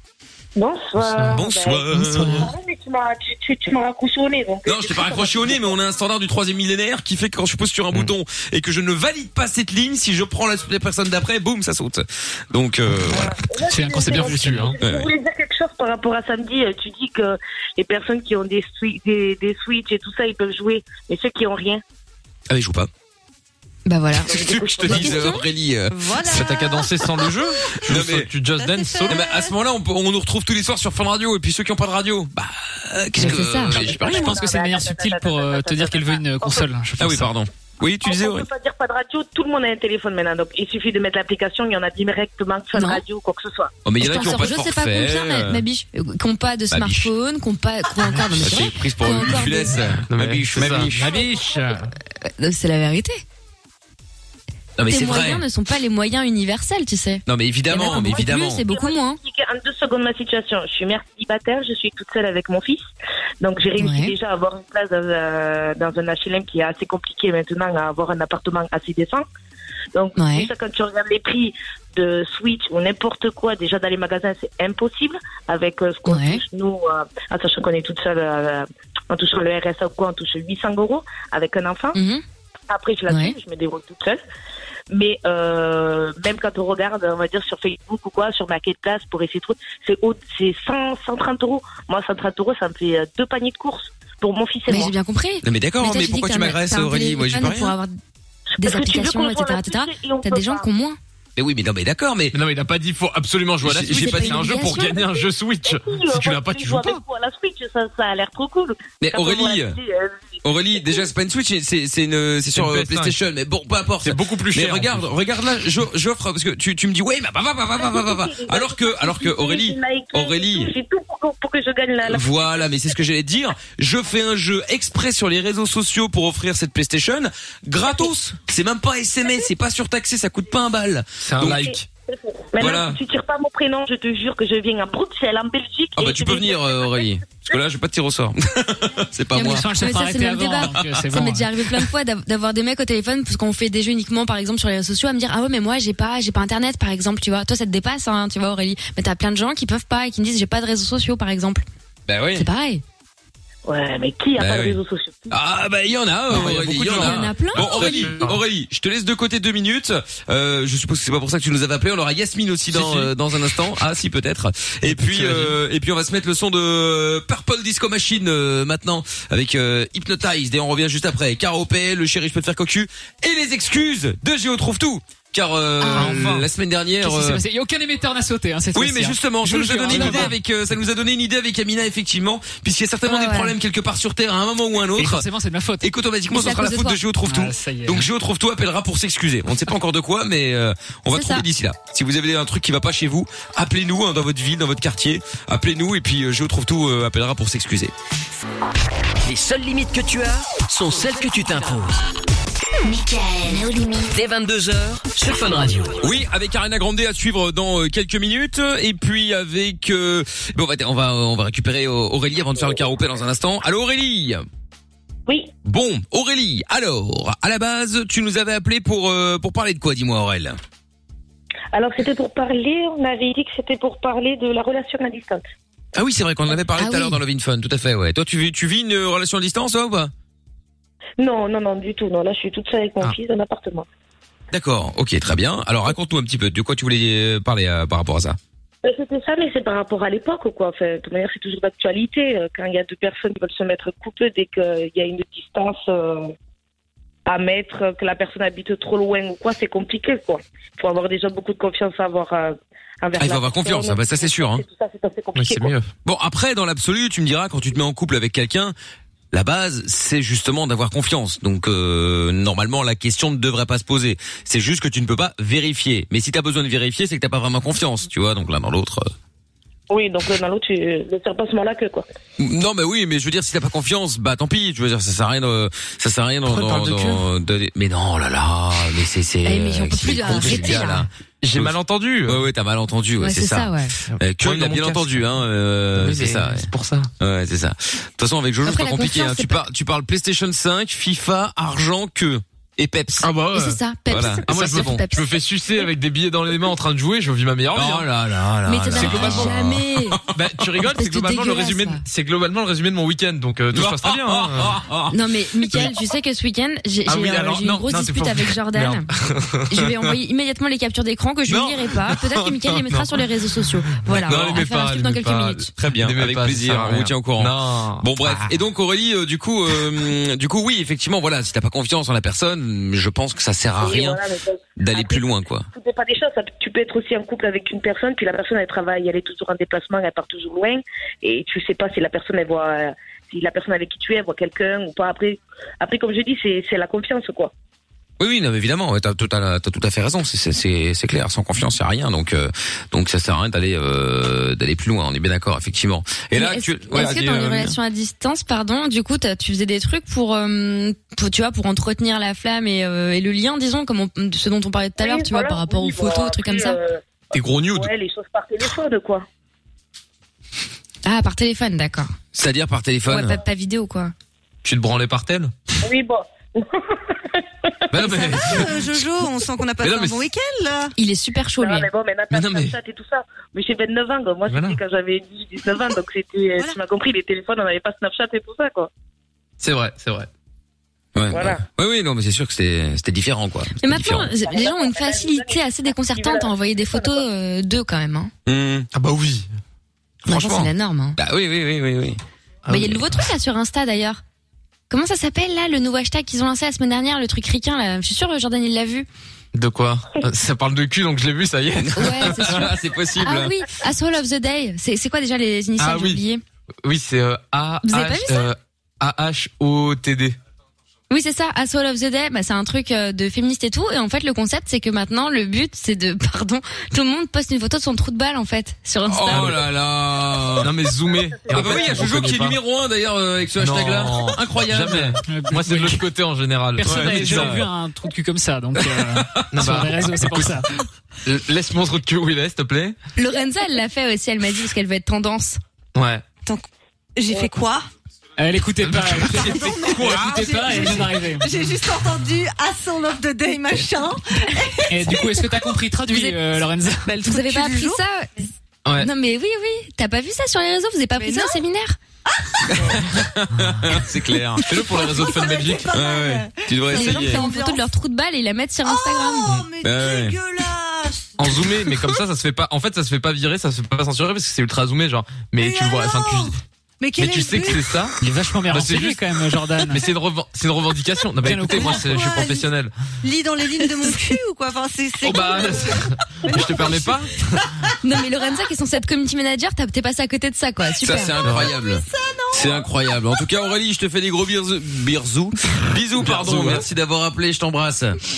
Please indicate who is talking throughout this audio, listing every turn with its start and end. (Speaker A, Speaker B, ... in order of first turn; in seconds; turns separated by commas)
Speaker A: 0.6-5.8, Speaker B: 1.0-2.5, Speaker C: 1.3-2.5, Speaker C: 4.6-13.3, Speaker A: 13.1-21.8, Speaker D: 13.7-14.8, Speaker B: 14.1-14.7, Speaker C: 14.8-15.1, Speaker C: 22.5-22.9, Speaker E: 23.9-25.4, Speaker A: 24.2-25.4, Speaker C: 24.3-26.5, Speaker F: 25.9-27.8, Speaker B: 26.2-29.2, Speaker C: 27.8-28.3, Speaker F: 28.5-29.5, Speaker C: 29.1-34.4, Speaker E: 33.2-33.8, Speaker A: 33.6-36.7, Speaker D: 33.9-37.3, Speaker C: 37.0-38.5, Speaker A: 38.0-43.7, Speaker E: 42.7-43.0, Speaker C: 43.8-45.6, Speaker E: 44.0-49.8, Speaker C: 46.7-47.1, Speaker C: 48.3-51.1, Speaker B: 50.1-51.9, Speaker A: 51.0-51.6, Speaker E: 52.2-53.2, Speaker C: 54.8-55.4, Speaker E: 54.9-59.2, Speaker C: 57.2-58.6, Speaker A: 58.7-62.9, Speaker A: 63.4-69.2, Speaker E: 63.8-64.1, Speaker A: 69.9-82.0, Speaker E: 70.2-70.5, Speaker E: 76.1-76.4, Speaker E: 81.9-82.2, Speaker A: 82.7-84.2, Speaker E: 83.1-83.3, Speaker A: 84.9-94.9, Speaker E: 94.7-97.9, Speaker C: 95.4-97.8, Speaker A: 98.6-100.7, Speaker E: 98.6-101.0, Speaker C: 101.3-102.3, Speaker B: 102.3-107.0, Speaker C: 103.6-104.5, Speaker E: 103.9-105.0, Speaker A: 104.5-111.0, Speaker C: 109.0-109.8, Speaker C: 110.4-120.7, Speaker B: 112.5-113.1, Speaker B: 114.0-115.1, Speaker A: 117.8-123.0, Speaker C: 122.0-131.7, Speaker B: 131.2-131.9, Speaker A: 131.5-137.2, Speaker C: 132.6-133.0, Speaker C: 136.0-139.7, Speaker D: 139.3-141.5, Speaker E: 139.3-151.6, Speaker C: 152.1-152.5, Speaker E: 152.3-152.8, Speaker A: 153.6-155.3, Speaker C: 154.4-154.8, Speaker C: 155.3-177.4, Speaker B: 156.3-158.4, Speaker E: 156.7-158.2, Speaker B: 162.7-163.1, Speaker B: 164.9-165.6, Speaker E: 175.8-176.1, Speaker B: 175.9-176.4, Speaker D: 177.0-180.3, Speaker C: 178.7-185.2, Speaker E: 179.9-180.3, Speaker E: 183.1-183.5, Speaker D: 185.0-185.9, Speaker C: 185.8-197.9, Speaker E: 186.3-187.0, Speaker D: 187.2-188.1, Speaker E: 191.1-191.4, Speaker G: 199.2-202.0, Speaker G: 204.1-206.0, Speaker C: 206.0-214.4, Speaker A: 215.3-215.5, Speaker C: 215.6-220.6, Speaker A: 221.7-225.4, Speaker C: 225.9-230.1, Speaker E: 226.8-227.2, Speaker A: 231.2-233.9, Speaker C: 234.5-238.4, Speaker A: 238.8-246.3, Speaker A: 247.2-255.7, Speaker C: 253.2-254.6, Speaker B: 255.3-255.9, Speaker C: 256.0-258.7, Speaker C: 259.3-269.1, Speaker A: 269.9-272.1, Speaker C: 272.4-293.3, Speaker B: 276.4-277.2, Speaker E: 279.4-281.1, Speaker B: 280.3-280.8, Speaker B: 281.4-282.4, Speaker E: 283.2-284.0, Speaker B: 284.1-285.4, Speaker B: 285.9-287.1, Speaker E: 288.6-289.6, Speaker B: 293.2-293.8, Speaker E: 293.5-295.9, Speaker C: 294.1-295.0, Speaker B: 294.5-298.1, Speaker C: 297.7-300.3, Speaker E: 298.6-300.2, Speaker B: 298.9-299.7, Speaker B: 300.3-304.8, Speaker E: 300.8-302.0, Speaker C: 303.7-305.1, Speaker E: 305.1-309.1, Speaker B: 307.1-310.1, Speaker E: 309.7-315.7, Speaker B: 311.5-313.2, Speaker B: 314.1-318.5, Speaker C: 314.2-314.7, Speaker C: 315.7-324.2, Speaker A: 323.8-337.5, Speaker C: 324.8-325.7, Speaker C: 338.2-347.8, Speaker E: 346.3-356.8, Speaker B: 346.9-347.3, Speaker A: 355.0-359.2, Speaker B: 357.3-357.9, Speaker E: 361.0-362.1, Speaker C: 362.3-363.4, Speaker E: 363.1-364.1, Speaker B: 364.6-365.5, Speaker A: 365.8-368.2, Speaker B: 367.9-369.2, Speaker F: 368.3-370.9, Speaker B: 369.8-370.2, Speaker E: 371.0-371.9, Speaker A: 371.6-378.9, Speaker B: 372.3-372.7, Speaker B: 374.5-374.8, Speaker B: 379.6-380.3, Speaker C: 381.1-384.3, Speaker A: 381.3-381.6, Speaker E: 383.8-388.3, Speaker A: 384.3-387.2, Speaker C: 388.4-388.9, Speaker B: 388.9-389.4, Speaker C: 390.2-392.2, Speaker E: 390.3-391.2, Speaker B: 392.7-393.0, Speaker E: 392.7-394.2, Speaker E: 394.9-399.1, Speaker B: 399.5-402.7, Speaker C: 401.8-403.5, Speaker E: 401.9-406.4, Speaker B: 405.8-406.2, Speaker B: 406.8-410.4, Speaker E: 407.8-408.5, Speaker E: 411.1-419.6, Speaker C: 419.1-420.7, Speaker B: 419.3-419.6, Speaker B: 420.6-422.6, Speaker C: 421.5-425.2, Speaker A: 421.5-421.9, Speaker B: 423.6-427.6, Speaker D: 425.3-426.0, Speaker D: 426.8-430.7, Speaker C: 426.8-427.6, Speaker B: 429.5-430.6, Speaker B: 431.2-432.9, Speaker E: 433.2-435.6, Speaker B: 435.9-436.2, Speaker F: 437.1-437.9, Speaker D: 438.4-441.4, Speaker B: 438.8-440.9, Speaker F: 439.2-445.7, Speaker D: 444.9-447.1, Speaker E: 446.1-446.4, Speaker F: 447.1-448.0, Speaker E: 447.1-452.0, Speaker B: 448.8-449.1, Speaker F: 451.2-451.6, Speaker F: 452.3-452.7, Speaker C: 452.7-454.6, Speaker B: 454.6-455.9, Speaker F: 454.7-457.8, Speaker C: 455.9-457.4, Speaker E: 456.9-459.5, Speaker F: 458.9-461.5, Speaker C: 459.8-460.4, Speaker B: 461.4-466.5, Speaker F: 465.6-468.0, Speaker B: 467.2-468.1, Speaker D: 468.2-470.1, Speaker B: 468.7-469.2, Speaker B: 469.9-472.9, Speaker D: 471.4-472.1, Speaker F: 471.7-472.7, Speaker F: 473.2-477.6, Speaker B: 475.2-477.6, Speaker E: 478.0-481.4, Speaker C: 481.0-488.2, Speaker F: 481.1-483.5, Speaker B: 481.4-481.7, Speaker B: 486.2-486.9